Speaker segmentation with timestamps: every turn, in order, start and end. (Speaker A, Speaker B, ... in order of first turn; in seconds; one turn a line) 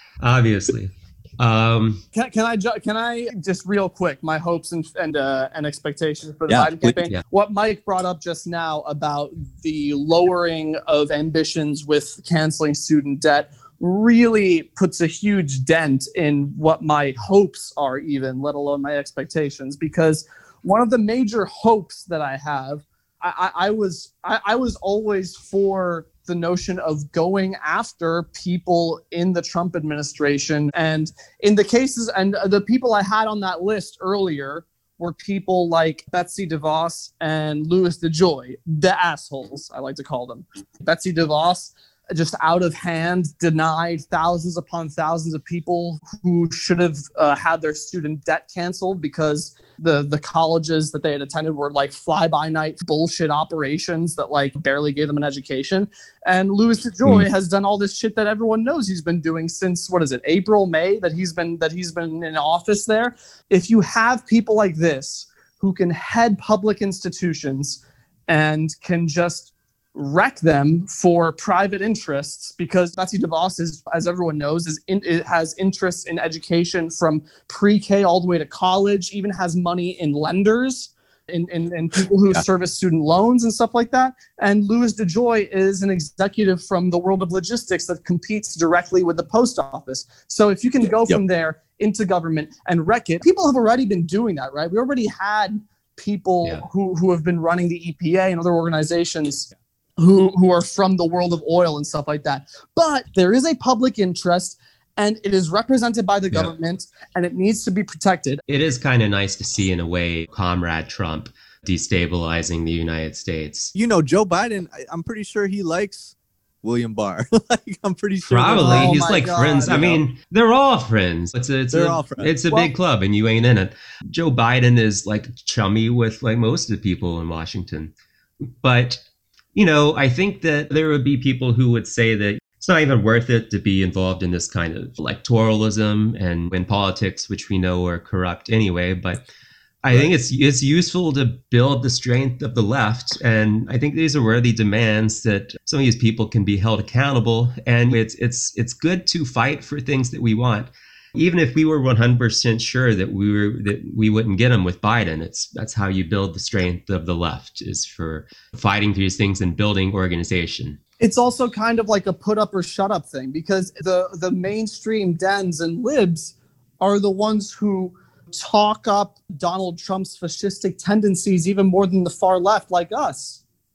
Speaker A: 0.2-2.0
Speaker B: 2.1-108.4
Speaker C: 6.5-7.0
Speaker A: 108.5-113.7
Speaker C: 113.8-120.0
Speaker A: 118.3-127.9
Speaker B: 118.6-120.0
Speaker C: 121.7-122.3
Speaker A: 128.6-129.0
Speaker A: 129.6-139.2
Speaker A: 139.8-160.8
Speaker B: 161.0-173.4